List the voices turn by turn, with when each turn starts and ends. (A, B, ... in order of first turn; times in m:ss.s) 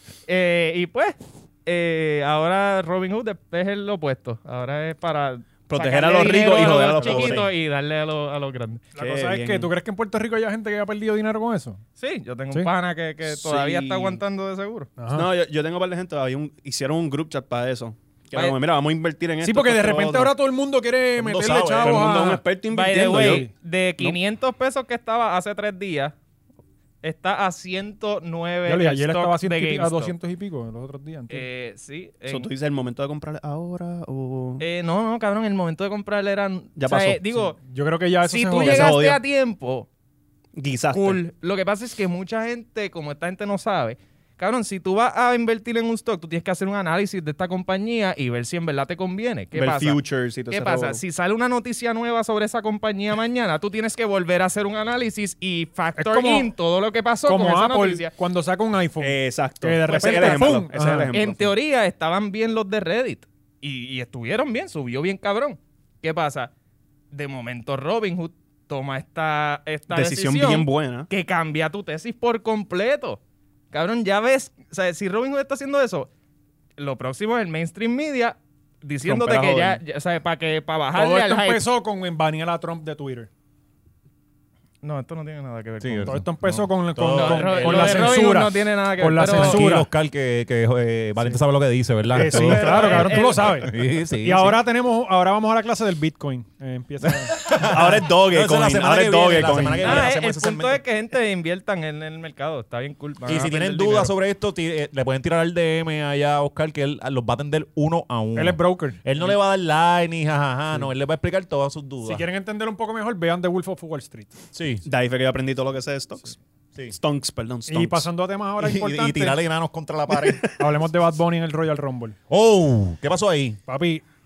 0:00.3-0:08.8 A
0:05.7-0:07.4 B
0:06.9-0:07.5 C
0:08.9-0:11.8 D
0:09.0-0:09.7 B
0:12.0-0:14.9 A
0:13.3-0:14.2 B
0:15.0-0:15.3 D
0:15.1-0:20.3 B
0:19.4-0:22.4 D
0:21.2-0:22.3 C
0:21.8-0:23.5 B
0:22.7-0:26.1 A
0:23.0-0:23.5 D
0:27.0-0:30.1 A
0:28.6-0:31.4 D
0:31.3-0:32.5 A
0:32.3-0:34.6 B
0:34.6-0:37.6 A
0:36.8-0:37.5 B
0:37.6-0:39.0 D
0:38.2-0:39.9 A
0:38.6-0:39.2 B
0:40.6-0:41.2 B
0:40.9-0:58.1 A
0:49.5-0:51.0 B
0:56.0-0:56.5 D
0:57.3-1:01.1 D
0:59.0-1:01.5 B
0:59.9-1:06.5 A
1:07.1-1:13.2 A
1:09.9-1:11.1 B
1:13.7-1:16.1 A
1:16.8-1:21.6 A
1:19.0-1:19.8 B
1:20.9-1:23.3 D
1:24.8-1:26.2 A
1:25.8-1:28.2 C
1:26.0-1:29.9 D
1:27.1-1:29.7 A
1:29.2-1:34.6 C
1:32.1-1:37.4 D
1:32.2-1:33.7 A
1:37.3-1:40.8 C
1:37.4-1:40.1 B
1:39.8-1:44.1 A
1:43.2-1:52.2 C
1:48.3-1:49.0 D
1:52.0-1:54.4 D
1:54.5-1:54.8 C
1:54.8-1:56.4 B
1:56.9-1:58.1 B
1:57.7-1:59.4 D
1:58.6-2:00.5 C
2:00.2-2:00.4 B
2:00.6-2:02.2 D
2:02.3-2:03.6 C
2:03.7-2:04.0 D